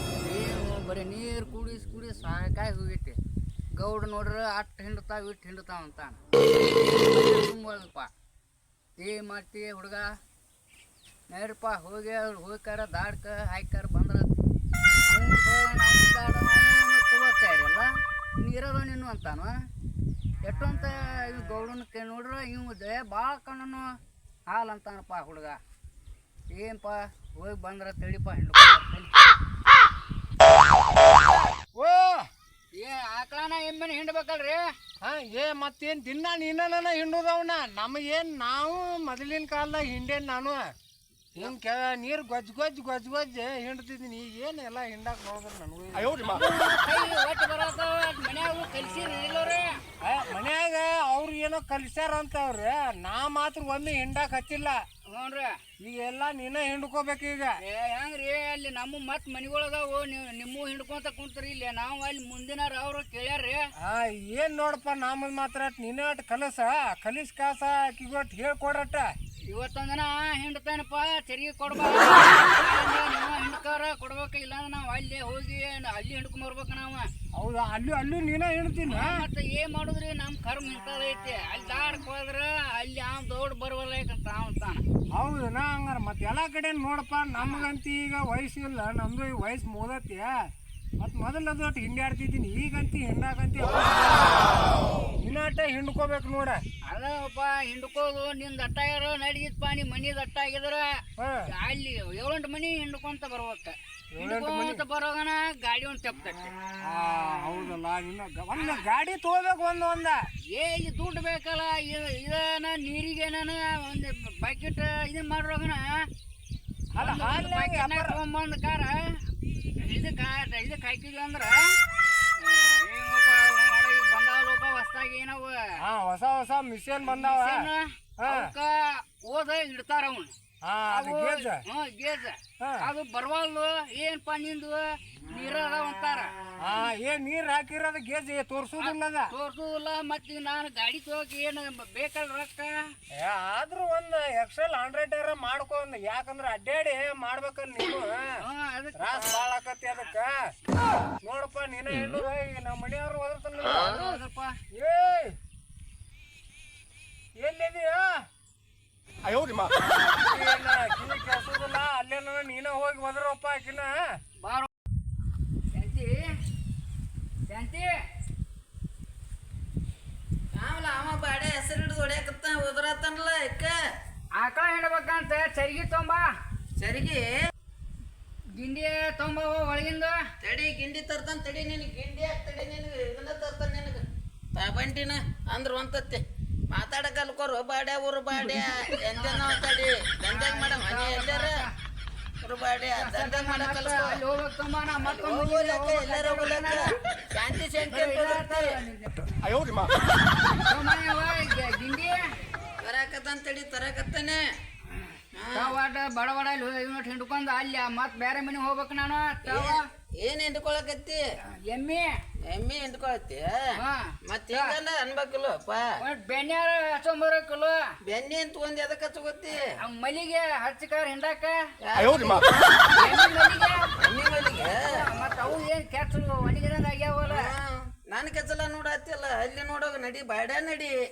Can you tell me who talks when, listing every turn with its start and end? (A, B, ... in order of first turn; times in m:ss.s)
0:00.1-0:03.2 A
0:03.8-0:08.1 A
0:09.0-0:10.1 A
0:11.3-0:14.3 A
0:15.1-0:19.7 A
0:20.4-0:23.9 A
0:24.5-0:25.6 A
0:26.5-0:29.1 A
0:31.7-0:32.3 B
0:32.8-0:34.7 A
0:35.0-0:40.7 B
0:41.4-0:46.4 B
0:46.2-0:49.8 A
0:50.0-0:54.8 B
0:55.1-0:55.6 A
0:55.8-0:57.6 B
0:57.6-1:03.7 A
1:03.8-1:09.1 B
1:09.5-1:17.1 A
1:17.3-1:19.2 B
1:18.9-1:24.8 A
1:25.1-1:30.4 B
1:27.4-1:27.7 A
1:31.0-1:36.6 B
1:36.9-1:46.5 A
1:41.2-1:41.5 B
1:44.1-1:44.8 B
1:46.8-1:50.2 B
1:48.6-1:48.8 A
1:50.5-1:56.1 A
1:57.0-1:58.2 B
1:57.0-2:01.8 A
2:02.4-2:05.8 A
2:05.8-2:07.7 B
2:07.0-2:10.3 A
2:08.2-2:08.5 B
2:10.6-2:11.6 B
2:10.9-2:16.4 A
2:12.6-2:12.9 B
2:16.6-2:19.3 B
2:18.8-2:22.7 A
2:23.2-2:28.4 B
2:28.4-2:29.5 A
2:29.0-2:30.5 B
2:31.2-2:34.2 B
2:33.6-2:34.6 A
2:34.7-2:35.4 B
2:37.4-2:38.2 B
2:39.6-2:44.0 B
2:44.4-2:44.7 A
2:45.7-2:46.3 A
2:47.5-2:47.9 A
2:50.5-2:53.8 C
2:54.4-2:56.3 A
2:56.8-2:57.4 C
2:58.6-3:00.2 A
3:00.4-3:04.0 C
3:04.6-3:11.6 C
3:08.3-3:09.6 A
3:10.3-3:11.7 A
3:12.4-3:14.2 C
3:13.0-3:16.9 A
3:15.0-3:18.8 C
3:17.8-3:19.5 A
3:20.6-3:22.2 A
3:22.8-3:24.5 C
3:24.9-3:29.8 A
3:25.4-3:25.8 C
3:29.4-3:31.2 C
3:31.5-3:32.1 A
3:32.5-3:36.0 C
3:33.8-3:34.8 A
3:36.0-3:37.8 A
3:38.0-3:39.8 C
3:39.7-3:41.6 A
3:41.8-3:42.8 C
3:42.9-3:43.9 A
3:44.0-3:45.1 C
3:44.7-3:47.6 A
3:47.2-3:51.0 C